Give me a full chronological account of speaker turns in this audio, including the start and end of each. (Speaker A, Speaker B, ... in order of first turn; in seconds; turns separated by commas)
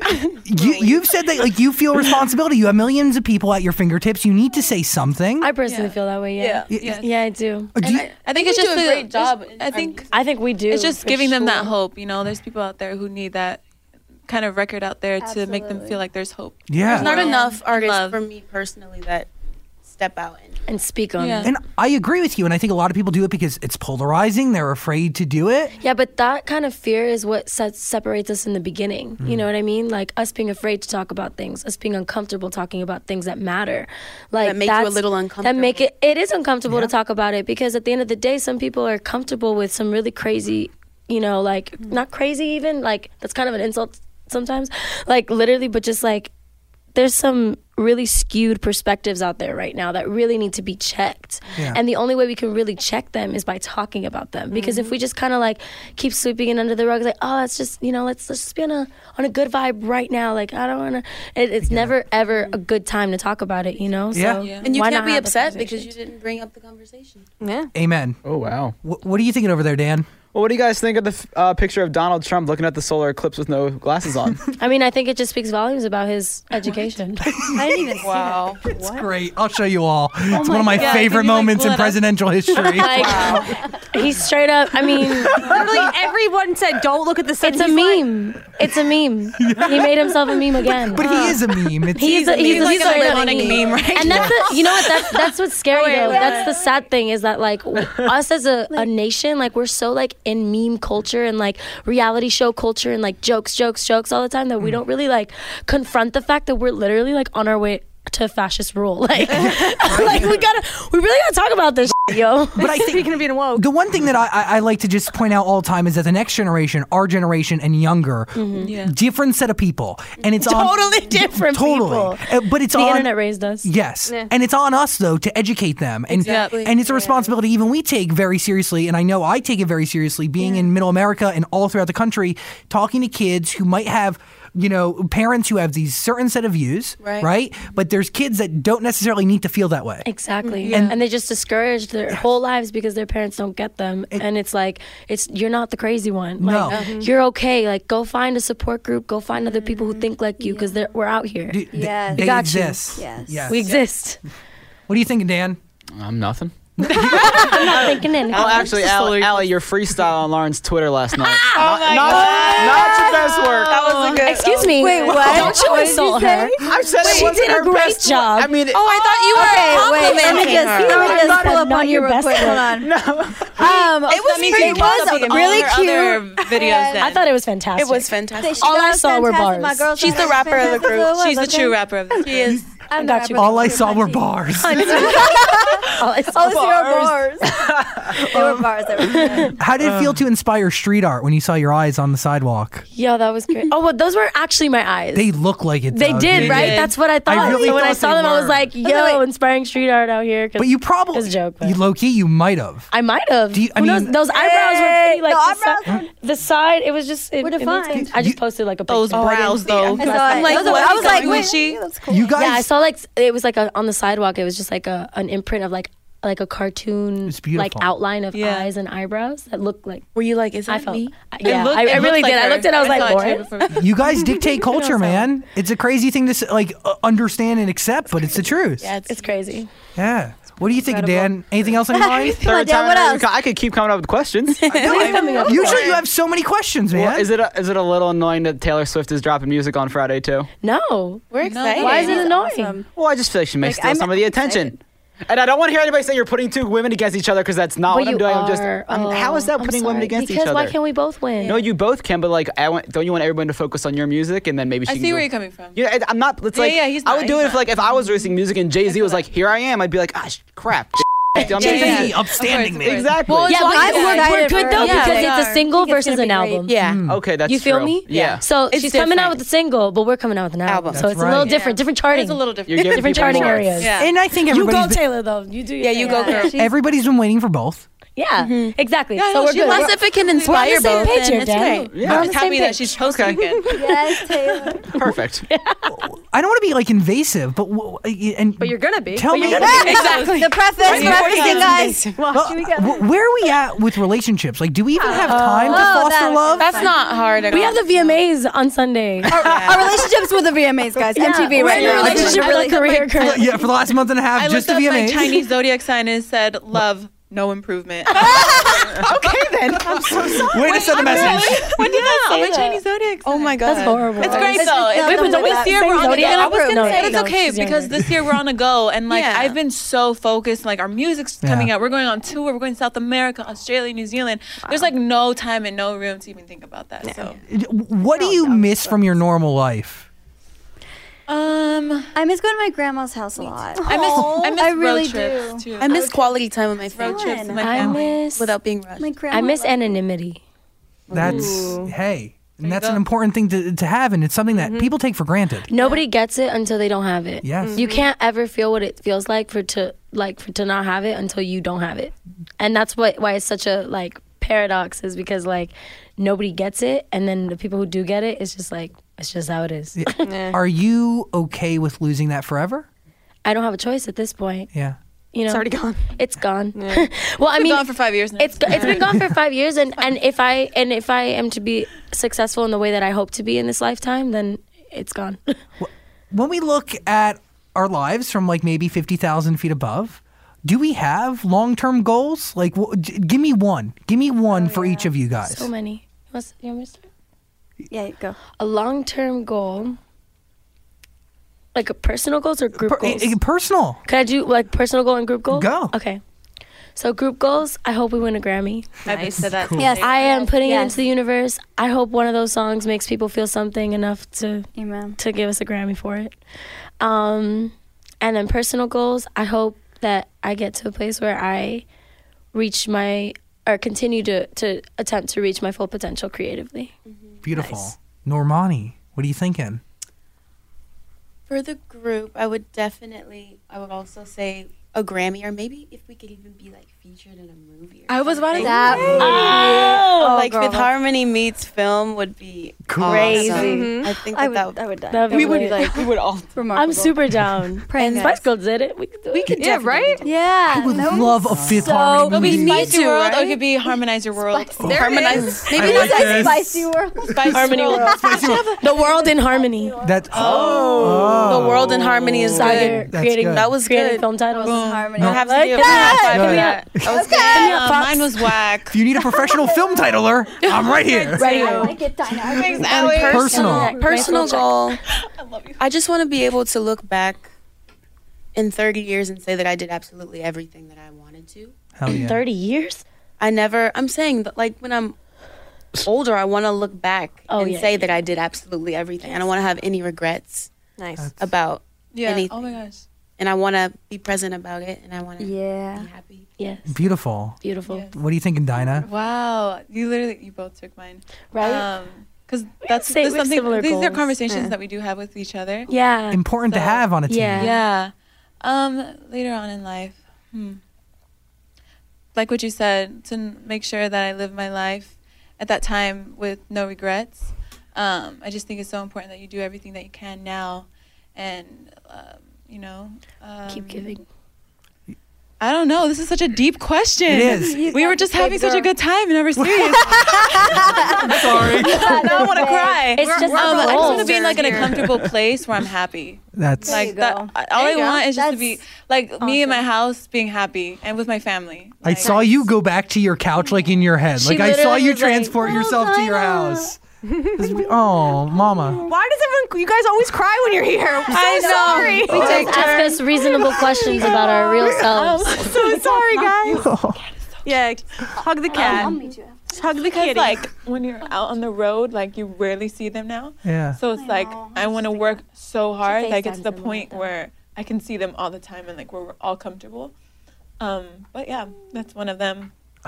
Speaker A: 0.3-1.0, Speaker B: 0.4-5.5, Speaker C: 5.4-8.1, Speaker D: 5.7-5.9, Speaker A: 6.4-6.7, Speaker B: 6.7-7.0, Speaker D: 6.7-7.1, Speaker B: 7.7-8.1, Speaker A: 7.9-10.1, Speaker D: 8.2-10.1, Speaker C: 10.1-11.7, Speaker D: 10.7-13.6, Speaker D: 14.3-18.2, Speaker E: 15.2-16.0, Speaker B: 16.7-17.2, Speaker A: 16.9-19.3, Speaker A: 19.8-20.7, Speaker C: 20.7-21.5, Speaker D: 21.2-21.5, Speaker B: 21.4-25.7, Speaker C: 25.8-46.3, Speaker B: 29.2-29.4, Speaker A: 34.4-35.9, Speaker B: 36.7-36.9, Speaker C: 46.9-65.9, Speaker B: 51.5-51.8, Speaker F: 54.5-54.9, Speaker B: 61.6-62.0, Speaker B: 64.1-64.5, Speaker D: 64.4-64.7, Speaker A: 64.6-67.3, Speaker F: 67.4-67.7, Speaker B: 67.7-68.2, Speaker G: 68.2-68.7, Speaker B: 68.8-70.1, Speaker G: 70.3-74.4, Speaker C: 74.6-77.3, Speaker B: 77.2-77.9, Speaker E: 77.5-79.1, Speaker A: 78.0-78.7, Speaker B: 78.7-83.5, Speaker E: 80.3-81.1, Speaker D: 80.7-82.1, Speaker C: 82.6-85.5, Speaker F: 82.9-83.5, Speaker B: 85.0-85.9, Speaker F: 85.3-88.1, Speaker C: 87.4-91.2, Speaker B: 89.4-92.2, Speaker D: 91.0-91.4, Speaker C: 91.9-112.8, Speaker D: 92.0-94.5, Speaker A: 92.3-93.8, Speaker B: 94.0-94.3, Speaker A: 95.7-96.5, Speaker E: 96.0-96.7, Speaker B: 109.3-110.4, Speaker B: 112.0-123.1, Speaker F: 112.6-113.7, Speaker C: 118.3-118.7, Speaker D: 118.6-119.0, Speaker C: 120.4-123.7, Speaker F: 120.5-121.1, Speaker B: 123.6-140.1, Speaker A: 126.1-127.3, Speaker D: 126.2-126.6, Speaker A: 137.0-137.3, Speaker C: 140.0-152.8, Speaker A: 140.4-140.7, Speaker D: 140.6-141.0, Speaker B: 140.7-141.0, Speaker B: 146.4-146.8, Speaker A: 146.7-147.1, Speaker E: 149.4-150.9, Speaker B: 151.5-153.7, Speaker E: 151.7-153.6, Speaker C: 153.5-154.2, Speaker B: 154.9-155.6, Speaker G: 155.9-156.7, Speaker B: 156.8-157.6, Speaker C: 157.0-158.9, Speaker D: 157.1-157.6, Speaker G: 157.9-164.0, Speaker D: 158.8-159.4, Speaker C: 161.2-163.1, Speaker D: 161.5-164.3, Speaker A: 161.6-162.9, Speaker E: 163.0-163.3, Speaker A: 163.6-165.6, Speaker C: 164.1-168.5, Speaker E: 164.7-167.0, Speaker G: 165.2-165.5, Speaker G: 166.6-168.8, Speaker D: 167.0-167.2, Speaker A: 167.0-167.3, Speaker D: 168.7-171.2, Speaker A: 168.8-171.4, Speaker E: 169.3-177.1, Speaker C: 170.7-172.8, Speaker G: 172.8-173.5, Speaker D: 173.6-177.2, Speaker A: 173.6-175.8, Speaker C: 177.0-180.1, Speaker A: 177.8-178.7, Speaker E: 178.4-181.8, Speaker A: 180.0-181.2, Speaker D: 180.0-182.6, Speaker A: 182.2-182.7, Speaker E: 182.9-189.6, Speaker C: 182.9-186.7, Speaker B: 183.3-185.1, Speaker G: 186.5-188.0, Speaker B: 188.3-188.6, Speaker C: 189.1-189.5, Speaker B: 189.6-192.8, Speaker C: 192.9-195.3, Speaker B: 195.1-198.7, Speaker C: 195.9-201.8, Speaker D: 196.3-196.9, Speaker E: 197.4-197.8, Speaker E: 198.8-199.2, Speaker B: 200.6-202.9, Speaker C: 202.9-210.6, Speaker B: 203.5-204.2, Speaker E: 204.2-206.1, Speaker E: 207.4-208.1, Speaker B: 207.9-208.4, Speaker D: 208.9-211.8, Speaker A: 209.1-211.5, Speaker E: 209.8-212.4, Speaker B: 212.1-212.7, Speaker C: 212.3-220.1, Speaker B: 217.2-217.9, Speaker D: 218.3-218.7, Speaker A: 220.1-222.1, Speaker C: 220.7-223.5, Speaker D: 221.4-224.0, Speaker A: 222.8-223.8, Speaker B: 223.8-228.9, Speaker C: 224.8-225.2, Speaker A: 228.1-229.6, Speaker C: 229.1-229.7, Speaker B: 229.9-232.4, Speaker F: 230.6-231.3, Speaker E: 231.8-233.3, Speaker G: 232.4-234.7, Speaker A: 234.5-236.0, Speaker C: 234.7-236.0, Speaker D: 234.9-235.4, Speaker E: 235.1-235.8, Speaker B: 235.4-237.3, Speaker G: 236.9-240.5, Speaker C: 240.6-241.2, Speaker A: 241.3-242.3, Speaker D: 241.4-242.2, Speaker C: 241.8-242.8, Speaker E: 241.8-242.9, Speaker G: 242.9-244.7, Speaker E: 243.6-244.8, Speaker G: 245.3-250.8, Speaker C: 247.9-251.6, Speaker A: 251.4-251.8, Speaker G: 251.4-262.3, Speaker D: 254.8-255.8, Speaker D: 256.5-257.7, Speaker D: 261.4-265.6, Speaker B: 261.5-263.1, Speaker C: 261.6-262.0, Speaker G: 262.8-263.6, Speaker C: 263.4-266.7, Speaker E: 263.5-266.8, Speaker A: 263.6-264.2, Speaker A: 264.8-265.2, Speaker A: 266.7-267.1, Speaker B: 266.8-267.2, Speaker G: 267.0-268.4, Speaker C: 267.4-273.9, Speaker A: 268.1-269.4, Speaker A: 270.6-273.6, Speaker B: 270.9-271.5, Speaker G: 272.7-273.9, Speaker D: 273.7-274.1, Speaker B: 274.0-275.0, Speaker C: 274.4-276.5, Speaker A: 275.8-276.6, Speaker E: 276.0-276.8, Speaker B: 276.5-277.9, Speaker C: 278.1-282.9, Speaker A: 278.4-282.3, Speaker D: 279.2-284.7, Speaker G: 281.9-282.3, Speaker G: 283.0-283.4, Speaker E: 283.7-284.9, Speaker G: 284.9-285.5, Speaker C: 285.5-286.0, Speaker B: 285.9-289.9, Speaker F: 288.6-290.2, Speaker C: 289.3-290.4, Speaker E: 289.6-292.1, Speaker A: 289.6-292.2, Speaker D: 289.8-291.8, Speaker F: 290.9-293.1, Speaker B: 292.3-296.8, Speaker F: 295.0-295.9, Speaker C: 295.3-295.9, Speaker E: 295.4-297.4, Speaker A: 296.6-298.2, Speaker C: 297.5-299.4, Speaker E: 299.3-303.1, Speaker A: 299.3-300.1, Speaker C: 301.1-303.6, Speaker D: 301.6-303.7, Speaker A: 301.7-302.0, Speaker B: 302.0-302.4, Speaker B: 303.2-305.4, Speaker D: 304.3-309.0, Speaker A: 308.2-311.0, Speaker F: 308.4-308.8, Speaker B: 309.7-311.8, Speaker F: 309.9-311.0, Speaker D: 310.6-327.4, Speaker C: 311.8-312.8, Speaker A: 313.2-315.3, Speaker C: 313.6-318.0, Speaker E: 314.2-317.1, Speaker A: 316.2-317.2, Speaker A: 319.1-319.6, Speaker B: 321.4-321.7, Speaker F: 327.0-327.4, Speaker B: 327.5-330.1, Speaker E: 328.1-329.2, Speaker D: 331.3-332.1, Speaker E: 332.1-336.2, Speaker D: 333.8-336.1, Speaker A: 335.8-339.1, Speaker E: 336.9-337.7, Speaker D: 337.0-338.2, Speaker C: 337.6-338.5, Speaker E: 339.0-339.8, Speaker C: 339.3-340.4, Speaker F: 341.1-341.9, Speaker B: 341.1-345.7, Speaker D: 342.6-343.0, Speaker F: 344.5-344.9, Speaker C: 345.7-360.3, Speaker B: 347.4-347.8, Speaker F: 347.6-348.1, Speaker B: 359.9-362.9, Speaker F: 360.2-360.6, Speaker C: 363.4-364.7, Speaker B: 364.7-365.0, Speaker C: 365.3-375.6, Speaker F: 365.5-366.0, Speaker F: 366.7-367.1, Speaker D: 367.5-369.2, Speaker B: 375.8-385.7, Speaker E: 384.5-385.1, Speaker C: 385.4-387.1, Speaker E: 387.9-388.4, Speaker C: 388.6-390.0, Speaker C: 391.7-393.4, Speaker B: 392.7-394.0, Speaker C: 394.1-396.2, Speaker B: 395.5-395.9, Speaker C: 396.9-399.2, Speaker D: 399.1-400.6, Speaker B: 399.4-399.9, Speaker E: 399.7-401.1, Speaker C: 399.9-406.3, Speaker E: 404.7-405.2, Speaker C: 407.0-411.8, Speaker C: 412.5-416.9, Speaker A: 417.1-417.4, Speaker B: 417.4-419.8, Speaker F: 417.5-417.9, Speaker A: 421.5-436.5, Speaker D: 428.1-429.6, Speaker E: 428.5-430.9, Speaker C: 429.2-430.5, Speaker B: 432.9-433.7, Speaker C: 433.1-433.9, Speaker E: 433.1-437.2, Speaker F: 433.6-434.1, Speaker C: 435.1-436.1, Speaker C: 436.7-439.6, Speaker E: 437.9-438.4, Speaker A: 438.0-438.4, Speaker A: 439.3-440.3, Speaker F: 439.5-440.3, Speaker E: 440.2-442.6, Speaker B: 440.7-442.9, Speaker F: 440.9-441.2, Speaker A: 442.3-443.6, Speaker D: 442.3-445.3, Speaker B: 444.8-446.9, Speaker F: 444.8-446.0, Speaker A: 444.9-446.7, Speaker E: 445.6-448.9, Speaker A: 447.3-448.6, Speaker D: 447.4-449.3, Speaker C: 447.5-449.9, Speaker B: 448.2-448.7, Speaker E: 449.6-450.1, Speaker B: 450.0-453.7, Speaker D: 450.3-451.2, Speaker A: 450.3-457.7, Speaker G: 450.4-452.5, Speaker C: 452.4-456.8, Speaker E: 454.5-456.5, Speaker D: 454.6-455.2, Speaker B: 455.1-455.4, Speaker B: 456.1-456.8, Speaker E: 457.1-457.7, Speaker D: 457.1-459.2, Speaker C: 457.5-458.3, Speaker B: 458.9-461.4, Speaker E: 459.4-460.3, Speaker D: 460.6-463.6, Speaker C: 461.4-462.0, Speaker E: 461.4-463.4, Speaker A: 461.4-461.9, Speaker A: 462.6-465.0, Speaker B: 462.7-464.0, Speaker C: 463.1-464.8, Speaker D: 465.1-465.8, Speaker A: 465.8-467.5, Speaker A: 468.5-471.7, Speaker B: 471.9-472.4, Speaker C: 472.1-473.0, Speaker A: 473.4-475.1, Speaker A: 476.0-480.7, Speaker C: 477.5-478.2, Speaker F: 481.0-481.3, Speaker A: 481.4-482.7, Speaker D: 482.1-483.0, Speaker A: 483.4-486.5, Speaker E: 485.4-486.1, Speaker C: 486.6-487.0, Speaker B: 486.9-487.6, Speaker C: 487.6-488.1, Speaker D: 487.9-488.1, Speaker B: 488.1-489.1, Speaker D: 489.0-495.9, Speaker C: 491.5-491.9, Speaker C: 492.8-494.4, Speaker F: 494.5-494.8, Speaker C: 495.9-496.4, Speaker B: 496.3-497.8, Speaker D: 496.7-497.0, Speaker C: 497.3-497.8, Speaker D: 497.5-500.8, Speaker D: 502.3-514.2, Speaker C: 513.7-514.2, Speaker D: 515.6-532.4, Speaker B: 517.3-517.9, Speaker E: 517.4-518.9, Speaker B: 519.6-522.3, Speaker E: 520.0-524.5, Speaker C: 523.1-524.4, Speaker F: 523.4-525.0, Speaker A: 524.0-525.0, Speaker B: 526.5-527.1, Speaker E: 526.8-528.8, Speaker F: 527.7-528.2, Speaker F: 529.4-529.8, Speaker B: 532.0-537.0, Speaker F: 532.2-532.7, Speaker C: 534.4-535.5, Speaker E: 535.5-536.9, Speaker F: 537.2-537.8, Speaker B: 537.5-539.0, Speaker E: 537.8-539.1, Speaker F: 539.0-546.9, Speaker D: 541.3-543.1, Speaker E: 541.3-543.2, Speaker B: 542.3-542.8, Speaker C: 542.4-545.6, Speaker E: 543.7-544.4, Speaker D: 545.6-547.8, Speaker B: 546.7-547.2, Speaker F: 547.6-550.7, Speaker E: 548.7-550.0, Speaker D: 548.7-549.0, Speaker C: 548.7-549.1, Speaker D: 550.0-560.1, Speaker B: 553.6-554.0, Speaker E: 554.1-555.4, Speaker C: 556.0-557.3, Speaker D: 560.8-562.7